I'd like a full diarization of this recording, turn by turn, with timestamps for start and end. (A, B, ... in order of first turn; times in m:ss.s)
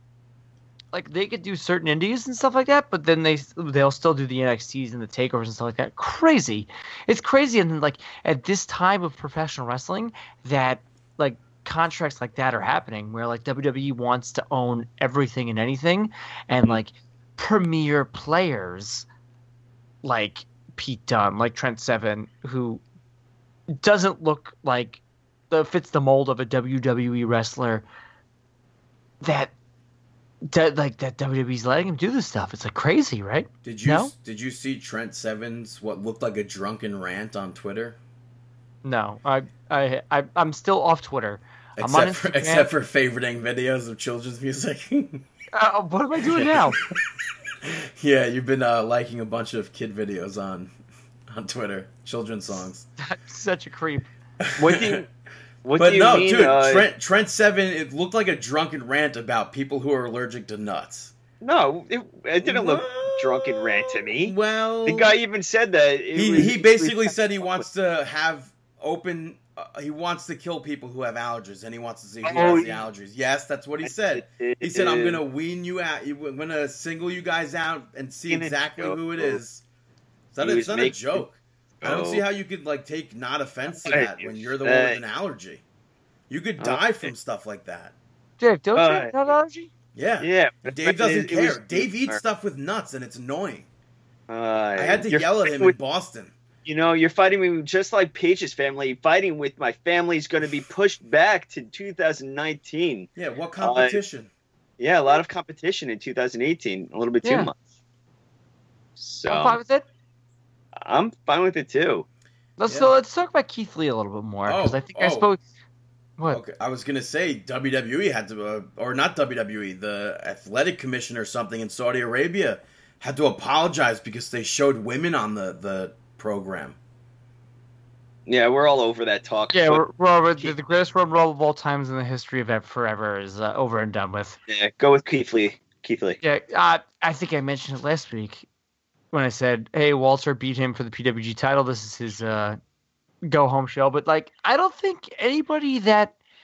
0:00.9-0:19.1 A
0:20.0-0:22.8 A
0:23.7-0:27.8 A
0:29.2-0:29.5 A
0:30.5-0:34.1 A
0:33.6-0:38.0 B
0:38.8-0:42.7 A
0:41.8-0:45.3 B
0:45.5-0:46.8 A
0:46.2-0:47.0 B
0:47.6-0:50.7 B
0:51.3-0:52.9 B
0:53.0-0:54.1 A
0:54.4-0:55.0 B
0:54.6-0:55.1 C
0:55.6-0:56.9 C
0:55.8-1:01.1 B
1:01.4-1:07.6 C
1:02.4-1:05.2 B
1:06.2-1:19.6 B
1:12.2-1:12.9 C
1:13.8-1:15.2 C
1:18.3-1:19.4 C
1:20.3-1:25.6 B
1:20.4-1:21.2 C
1:21.8-1:22.2 C
1:23.7-1:25.0 C
1:26.3-1:28.0 B
1:26.6-1:26.9 C
1:28.4-1:29.7 A
1:28.8-1:29.1 C
1:30.0-1:33.7 B
1:30.2-1:32.2 C
1:34.3-1:35.7 C
1:34.8-1:36.4 B
1:36.6-1:43.1 C
1:43.2-1:44.3 B
1:43.6-1:44.0 C
1:44.8-1:47.6 C
1:47.2-1:47.5 A
1:49.0-1:49.6 C
1:49.3-1:49.9 A
1:50.8-1:52.0 C
1:52.6-1:55.4 A
1:52.7-1:52.9 B
1:54.5-1:55.3 B
1:56.3-2:06.8 B
2:08.3-2:09.8 C
2:09.5-2:14.4 A
2:14.5-2:16.2 C
2:16.2-2:18.5 A
2:19.1-2:22.6 A
2:23.2-2:26.2 A